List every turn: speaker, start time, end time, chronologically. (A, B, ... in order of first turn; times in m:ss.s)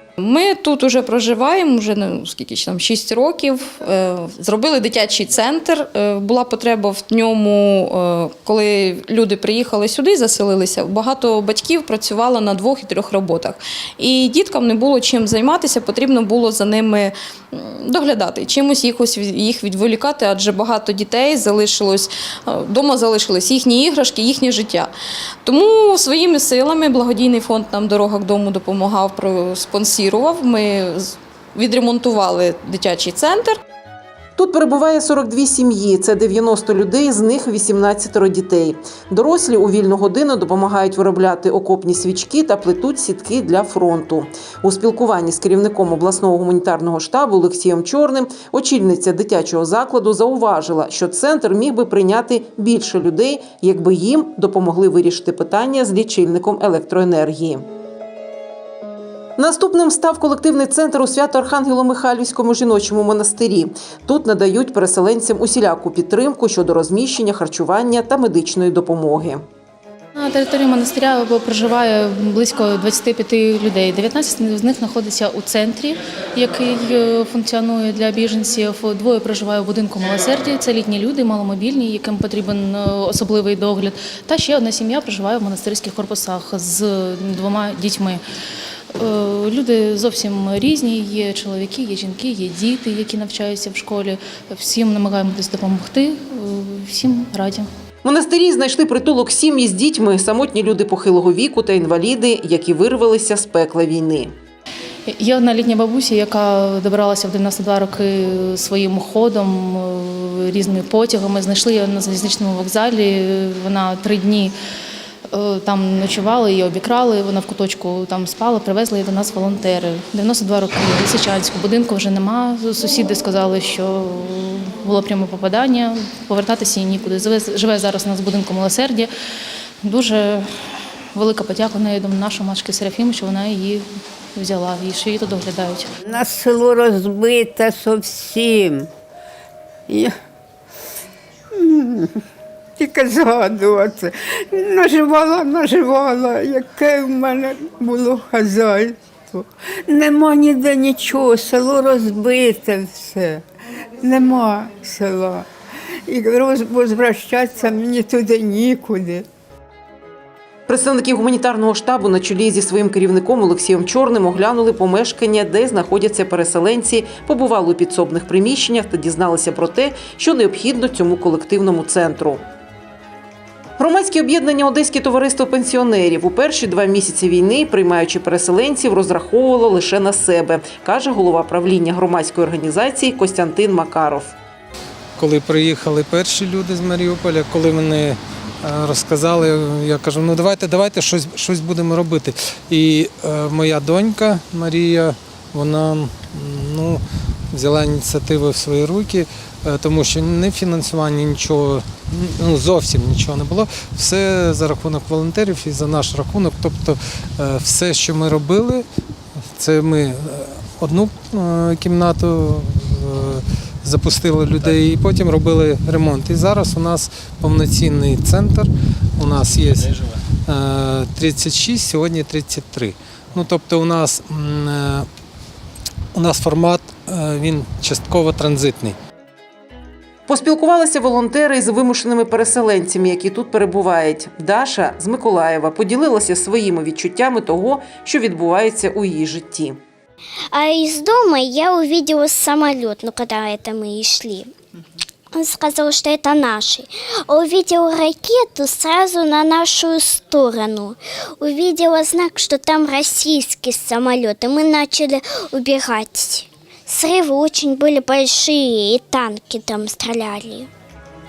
0:00.2-0:24.9 A
0:25.4-0:33.6 A
0:34.4-0:57.7 B
0:59.4-1:09.4 B
1:10.1-1:28.2 C
1:29.0-1:37.7 C
1:38.0-1:44.3 B
1:45.1-1:54.5 C
1:55.3-2:09.1 C
2:09.8-2:15.9 C
2:16.1-2:18.9 D
2:21.6-2:22.2 D
2:22.8-2:33.4 D
2:34.0-2:35.5 D
2:36.1-2:39.2 D
2:40.7-2:52.4 B
2:53.8-3:04.3 B
3:05.2-3:28.8 E
3:29.5-3:45.1 E
3:46.1-3:49.0 E
3:50.3-3:59.8 B
4:00.5-4:04.5 F
4:05.3-4:20.7 F